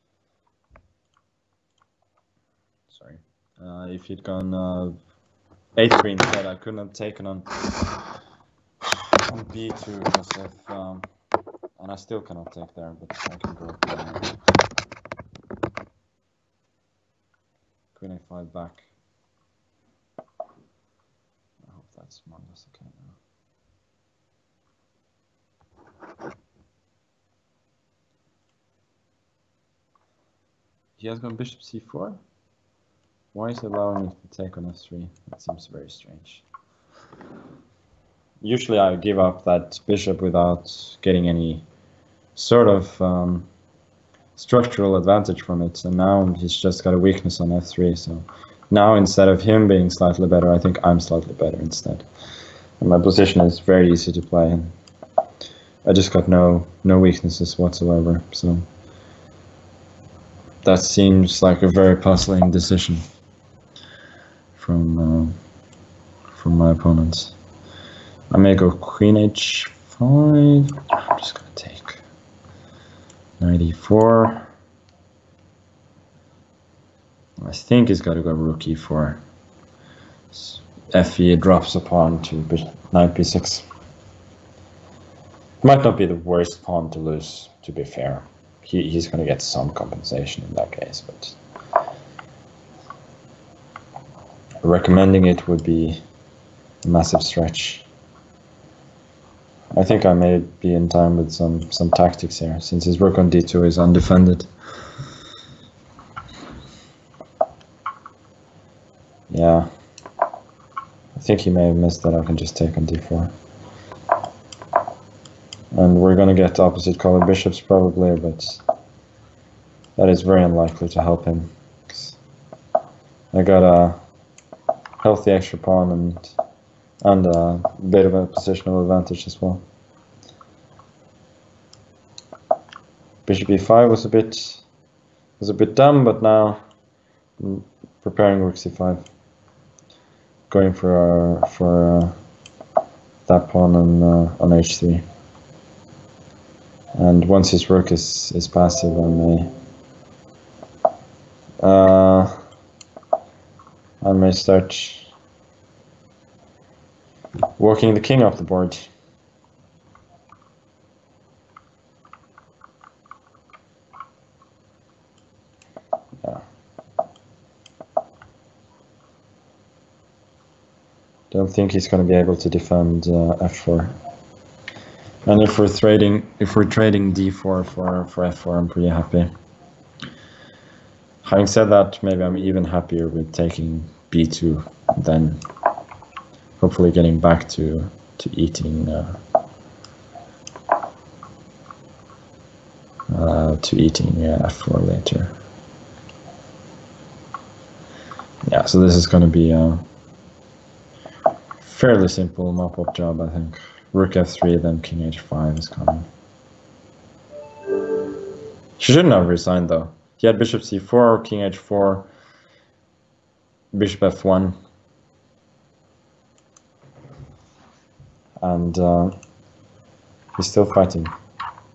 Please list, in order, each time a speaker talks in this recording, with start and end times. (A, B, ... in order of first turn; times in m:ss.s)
0:02.9-0:05.0 A
0:05.8-0:07.5 A
0:09.2-0:11.1 A
0:11.8-0:14.3 A
0:17.9-0:18.8 A
0:21.6-0:23.1 A
0:31.0-0:32.2 A
0:33.3-0:36.4 A
0:38.4-0:41.6 A
0:42.3-0:43.5 A
0:44.4-0:52.0 A
0:52.8-0:54.7 A
0:55.8-0:58.6 A
1:00.6-1:03.0 A
1:04.6-1:05.4 A
1:06.3-1:07.3 A
1:08.3-1:12.0 A
1:13.4-1:14.5 A
1:17.4-1:19.2 A
1:20.3-1:23.6 A
1:25.6-1:31.4 A
1:34.6-1:36.0 A
1:36.8-1:37.8 A
1:39.7-1:44.5 A
1:49.3-1:49.7 A
1:51.1-1:53.3 A
1:55.7-1:58.6 A
2:00.0-2:02.2 A
2:03.3-2:04.0 A
2:05.0-2:06.4 A
2:07.0-2:09.6 A
2:13.2-2:14.6 A
2:15.4-2:16.6 A
2:17.4-2:19.0 A
2:20.5-2:22.2 A
2:23.3-2:25.0 A
2:27.0-2:29.5 A
2:31.6-2:32.4 A
2:34.0-2:35.1 A
2:37.6-2:38.9 A
2:51.3-2:54.0 A
2:55.2-2:59.3 A
3:01.2-3:05.4 A
3:06.6-3:09.2 A
3:13.1-3:15.3 A
3:18.5-3:19.8 A
3:21.6-3:26.1 A
3:28.8-3:32.1 A
3:33.7-3:34.5 A
3:38.4-3:39.2 A
3:40.4-3:41.1 A